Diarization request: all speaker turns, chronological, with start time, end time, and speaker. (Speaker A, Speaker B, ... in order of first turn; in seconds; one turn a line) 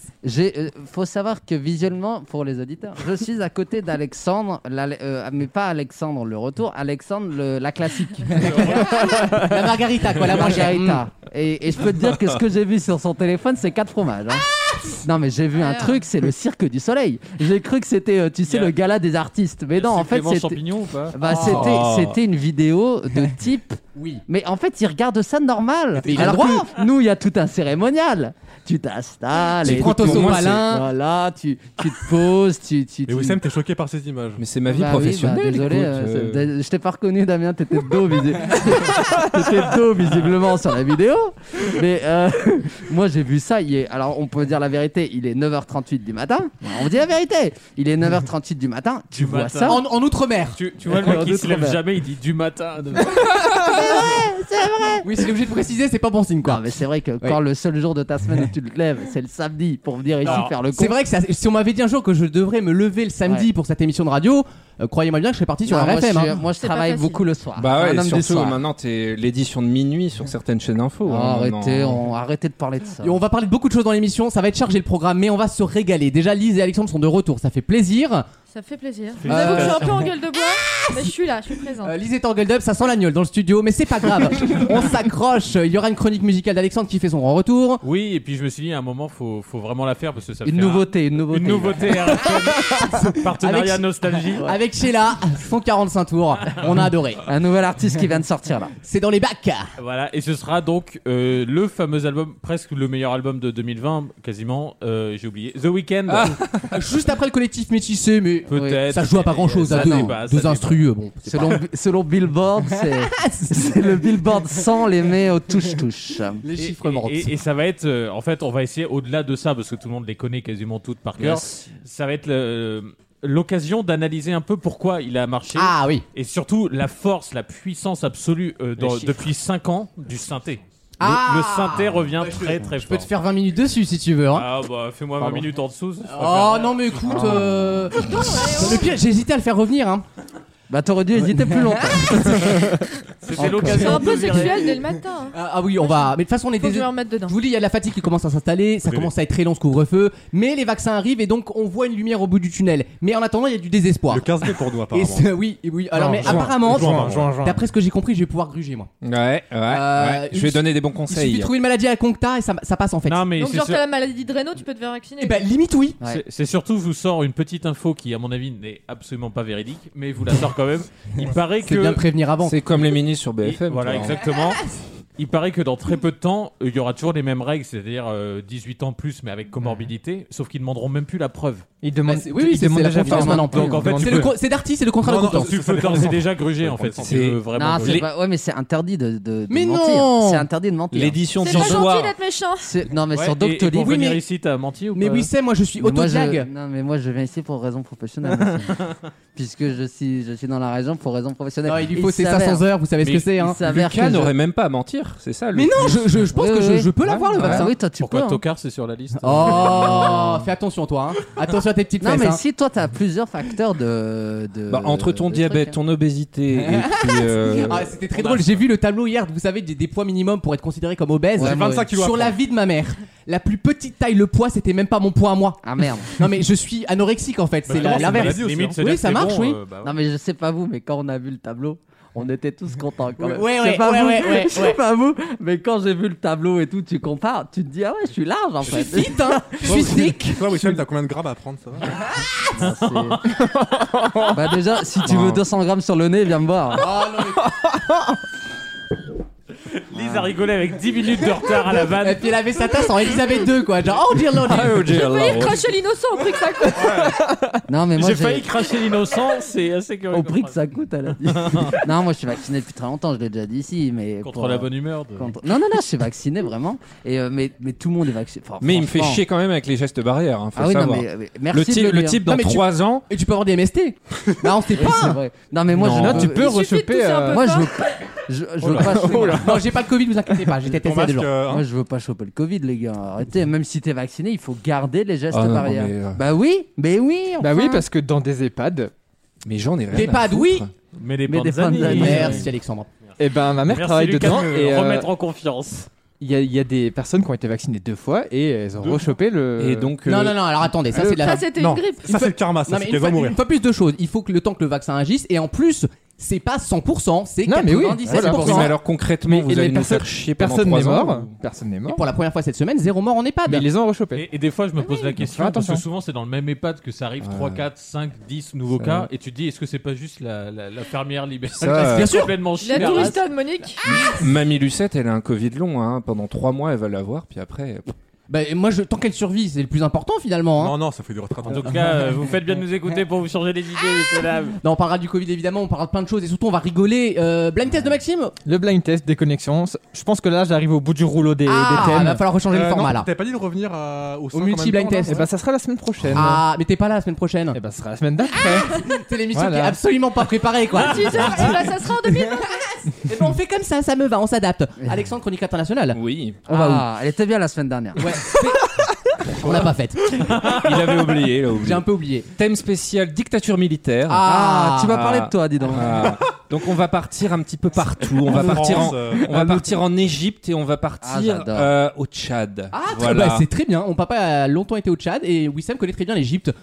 Speaker A: 0.2-20.6
Speaker B: 8.4-8.8
Speaker C: 9.0-11.0
Speaker D: 15.6-16.0
Speaker B: 18.5-18.7
Speaker B: 19.8-21.2
Speaker A: 21.1-33.4
Speaker C: 21.2-21.8
Speaker E: 21.3-22.2
Speaker C: 24.0-24.2
Speaker C: 26.0-26.7
Speaker E: 29.6-30.6
Speaker C: 29.6-30.9
Speaker F: 33.1-34.4
Speaker E: 34.4-36.4
Speaker A: 34.7-49.8
Speaker B: 49.1-49.8
Speaker C: 49.7-50.6
Speaker B: 50.5-53.3
Speaker A: 50.9-51.8
Speaker A: 53.5-55.3
Speaker C: 55.0-57.4
Speaker A: 56.4-61.0
Speaker B: 60.2-60.5
Speaker C: 60.3-66.4
Speaker A: 65.7-68.6
Speaker D: 66.6-67.2
Speaker E: 67.6-72.0
Speaker A: 71.1-73.2
Speaker C: 73.0-78.3
Speaker D: 78.5-82.0
Speaker B: 79.2-80.1
Speaker C: 79.3-80.1
Speaker C: 81.8-87.8
Speaker B: 87.8-94.5
Speaker A: 90.4-92.5
Speaker C: 92.7-93.8
Speaker C: 94.4-97.2
Speaker A: 97.2-98.7
Speaker C: 98.8-99.7
Speaker B: 99.8-106.4
Speaker E: 106.1-106.8
Speaker C: 106.7-111.6
Speaker B: 108.5-110.8
Speaker A: 108.5-108.8
Speaker A: 109.7-110.1
Speaker A: 111.3-116.4
Speaker C: 112.8-114.1
Speaker C: 116.4-117.3
Speaker B: 116.6-133.1
Speaker A: 121.2-121.6
Speaker C: 125.5-126.0
Speaker A: 128.8-129.2
Speaker C: 131.0-134.5
Speaker B: 134.3-137.3
Speaker C: 136.1-140.1
Speaker A: 137.1-137.8
Speaker D: 138.0-138.9
Speaker A: 140.7-142.7
Speaker C: 141.2-142.6
Speaker B: 143.2-144.7
Speaker C: 143.3-158.9
Speaker A: 143.4-144.1
Speaker D: 143.6-147.4
Speaker F: 148.8-149.1
Speaker F: 154.1-155.4
Speaker G: 155.9-157.6
Speaker F: 156.2-157.3
Speaker E: 159.0-161.5
Speaker C: 159.7-163.3
Speaker B: 163.1-163.8
Speaker D: 163.4-165.4
Speaker C: 165.2-166.0
Speaker B: 166.1-172.0
Speaker C: 171.6-172.8
Speaker E: 172.4-174.3
Speaker B: 173.4-174.6
Speaker B: 175.2-181.7
Speaker G: 181.8-184.3
Speaker C: 182.1-185.5
Speaker A: 183.1-183.5
Speaker B: 183.5-184.3
Speaker F: 185.0-187.2
Speaker B: 185.2-188.1
Speaker E: 187.0-188.0
Speaker A: 187.6-191.9
Speaker C: 189.5-190.5
Speaker E: 190.9-192.2
Speaker D: 191.4-192.7
Speaker A: 192.6-194.1
Speaker B: 193.1-195.3
Speaker C: 193.8-194.2
Speaker C: 194.9-196.5
Speaker A: 195.8-198.7
Speaker B: 198.5-198.9
Speaker A: 199.3-202.7
Speaker C: 201.7-203.6
Speaker A: 203.4-204.3
Speaker E: 203.6-206.3
Speaker C: 205.5-207.8
Speaker A: 206.3-208.4
Speaker G: 207.1-207.4
Speaker B: 208.0-210.1
Speaker C: 209.2-212.4
Speaker A: 209.2-210.5
Speaker A: 212.0-215.8
Speaker E: 214.7-218.0
Speaker C: 216.5-229.6
Speaker B: 218.2-218.7
Speaker A: 221.4-221.9
Speaker F: 221.4-222.3
Speaker A: 225.6-226.1
Speaker B: 227.7-229.9
Speaker F: 227.7-228.9
Speaker A: 229.8-239.8
Speaker C: 233.2-234.8
Speaker C: 238.6-240.4
Speaker F: 239.6-242.0
Speaker A: 242.5-243.2
Speaker B: 242.6-243.2
Speaker G: 243.5-244.4
Speaker A: 244.3-247.0
Speaker E: 245.0-245.4
Speaker C: 246.7-247.5
Speaker G: 247.4-248.2
Speaker B: 249.7-252.3
Speaker A: 249.9-250.3
Speaker C: 252.0-255.2
Speaker E: 254.4-255.7
Speaker D: 254.9-256.9
Speaker B: 256.7-257.1
Speaker G: 257.2-257.6
Speaker A: 257.7-258.5
Speaker B: 258.0-260.6
Speaker A: 260.1-269.2
Speaker B: 261.3-261.8
Speaker B: 264.2-265.3
Speaker E: 268.6-273.1
Speaker A: 270.6-272.2
Speaker C: 272.3-275.2
Speaker A: 274.6-276.6
Speaker E: 275.8-276.3
Speaker G: 275.8-277.4
Speaker D: 276.3-277.7
Speaker A: 277.3-279.6
Speaker G: 278.6-279.6
Speaker C: 279.1-281.3
Speaker F: 280.8-281.6
Speaker A: 281.5-287.7
Speaker E: 285.3-286.2
Speaker G: 287.4-288.9
Speaker D: 287.5-287.8
Speaker E: 289.4-290.7
Speaker C: 289.9-290.7
Speaker B: 290.9-292.4
Speaker A: 291.3-292.4
Speaker C: 291.8-292.9
Speaker E: 292.0-292.4
Speaker B: 293.0-295.9
Speaker G: 293.2-295.1
Speaker G: 296.2-299.9
Speaker E: 299.6-300.5
Speaker C: 300.1-308.8
Speaker G: 300.9-301.4
Speaker D: 301.1-302.2
Speaker F: 301.5-303.4
Speaker G: 307.5-312.0
Speaker E: 308.1-311.3
Speaker C: 311.9-313.7
Speaker G: 313.5-314.2
Speaker B: 314.1-323.2
Speaker D: 314.8-315.2
Speaker G: 315.2-315.8
Speaker E: 317.2-317.6
Speaker E: 318.7-319.1
Speaker E: 321.5-322.2
Speaker C: 321.9-323.2
Speaker D: 322.6-324.2
Speaker E: 323.9-327.9
Speaker C: 328.3-330.8
Speaker F: 330.6-331.9
Speaker B: 331.5-334.6
Speaker C: 334.6-338.4
Speaker G: 338.4-342.2
Speaker C: 341.5-343.1
Speaker F: 342.5-345.3
Speaker C: 344.3-345.2
Speaker G: 345.1-346.4
Speaker C: 346.1-347.6
Speaker G: 347.5-348.8
Speaker C: 348.4-356.9
Speaker G: 349.3-349.8
Speaker D: 350.7-352.6
Speaker E: 355.9-356.4
Speaker A: 356.5-358.2
Speaker C: 358.0-358.8
Speaker C: 359.3-362.3
Speaker E: 360.4-364.3
Speaker C: 364.1-365.0
Speaker A: 364.2-366.2
Speaker E: 364.9-373.5
Speaker F: 368.2-369.3
Speaker A: 371.0-371.7
Speaker C: 372.7-376.5